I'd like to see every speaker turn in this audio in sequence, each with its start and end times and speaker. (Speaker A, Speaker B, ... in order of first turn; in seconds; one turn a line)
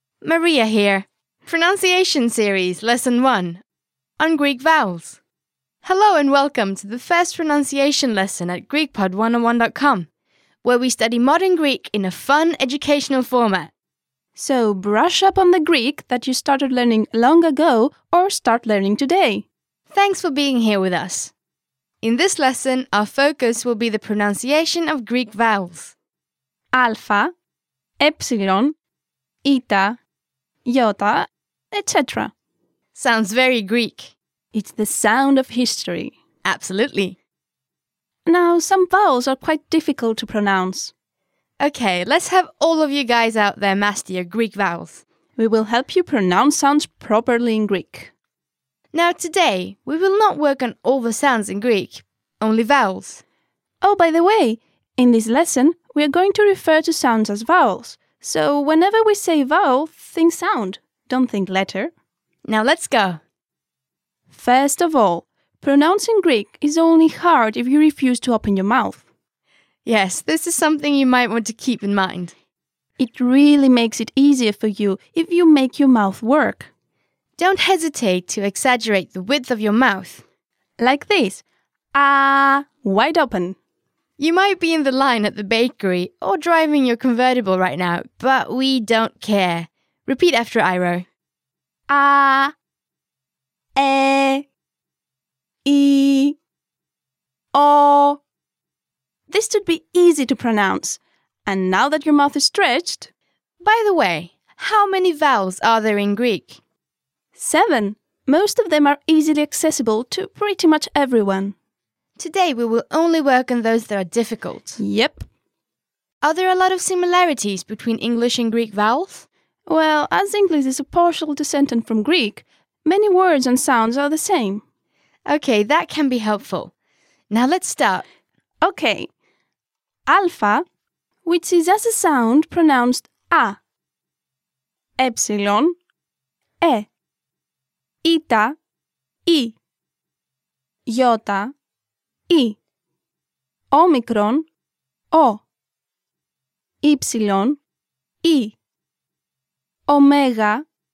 Speaker A: 0.2-3.6
Speaker A: 4.2-5.2
Speaker A: 5.8-10.1
Speaker A: 10.6-13.7
Speaker B: 14.3-19.4
Speaker A: 19.9-21.3
Speaker A: 22.0-25.9
Speaker B: 26.7-27.3
Speaker B: 28.0-28.7
Speaker B: 29.4-30.0
Speaker B: 30.7-32.3
Speaker A: 32.9-34.1
Speaker B: 34.5-36.2
Speaker A: 36.4-37.2
Speaker B: 38.3-40.9
Speaker A: 41.6-45.0
Speaker B: 45.4-48.1
Speaker A: 48.9-53.2
Speaker B: 53.8-61.9
Speaker A: 62.5-63.2
Speaker B: 64.3-69.0
Speaker A: 69.8-72.3
Speaker B: 73.0-76.7
Speaker A: 77.4-80.2
Speaker B: 80.8-83.6
Speaker A: 84.2-91.1
Speaker B: 91.9-92.5
Speaker B: 93.8-94.5
Speaker B: 95.7-96.4
Speaker B: 97.5-98.2
Speaker B: 99.3-103.1
Speaker A: 103.6-106.6
Speaker B: 107.3-111.5
Speaker A: 112.2-114.8
Speaker B: 114.8-115.3
Speaker A: 116.2-119.3
Speaker B: 119.7-124.6
Speaker A: 125.3-126.7
Speaker A: 127.3-128.1
Speaker B: 128.6-129.1
Speaker B: 130.1-130.7
Speaker B: 131.2-133.6
Speaker B: 135.0-135.8
Speaker B: 136.6-136.9
Speaker B: 138.0-138.6
Speaker B: 139.3-139.6
Speaker B: 140.9-141.5
Speaker B: 142.3-142.6
Speaker B: 143.7-144.5
Speaker B: 145.1-145.4
Speaker B: 146.8-147.6
Speaker B: 148.2-148.6
Speaker B: 149.9-150.7